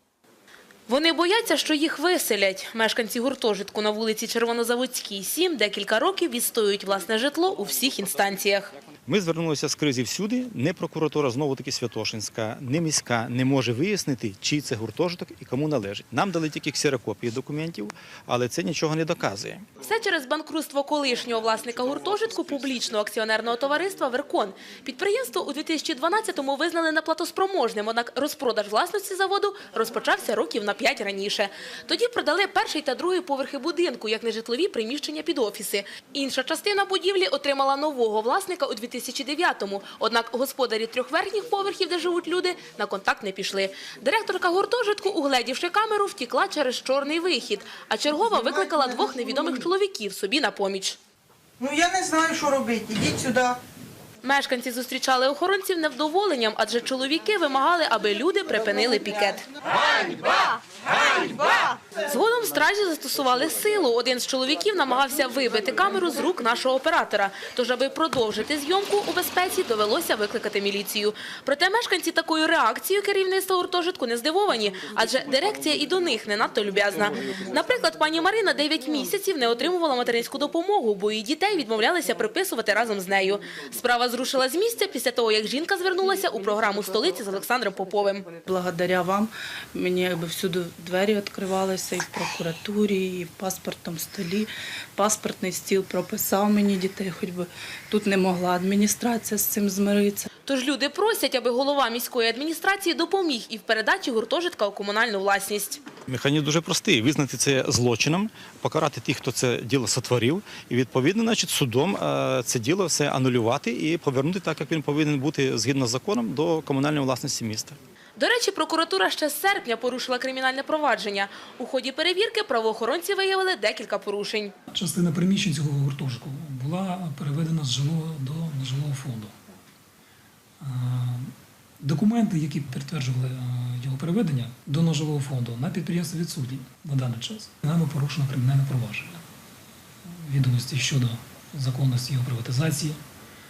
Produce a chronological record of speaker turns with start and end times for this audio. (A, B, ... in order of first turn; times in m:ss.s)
0:00.9-0:08.7 A
0:09.1-0:19.6 B
0:19.8-0:51.0 A
0:48.5-0:49.2 C
0:51.6-0:53.6 C
0:54.2-0:59.4 A
1:01.9-1:28.3 A
1:28.4-1:40.3 D
1:40.4-1:45.8 A
1:46.1-1:57.8 B
1:58.2-2:04.5 A
2:04.7-2:09.3 E
2:10.6-2:19.2 E
2:20.0-2:23.0 E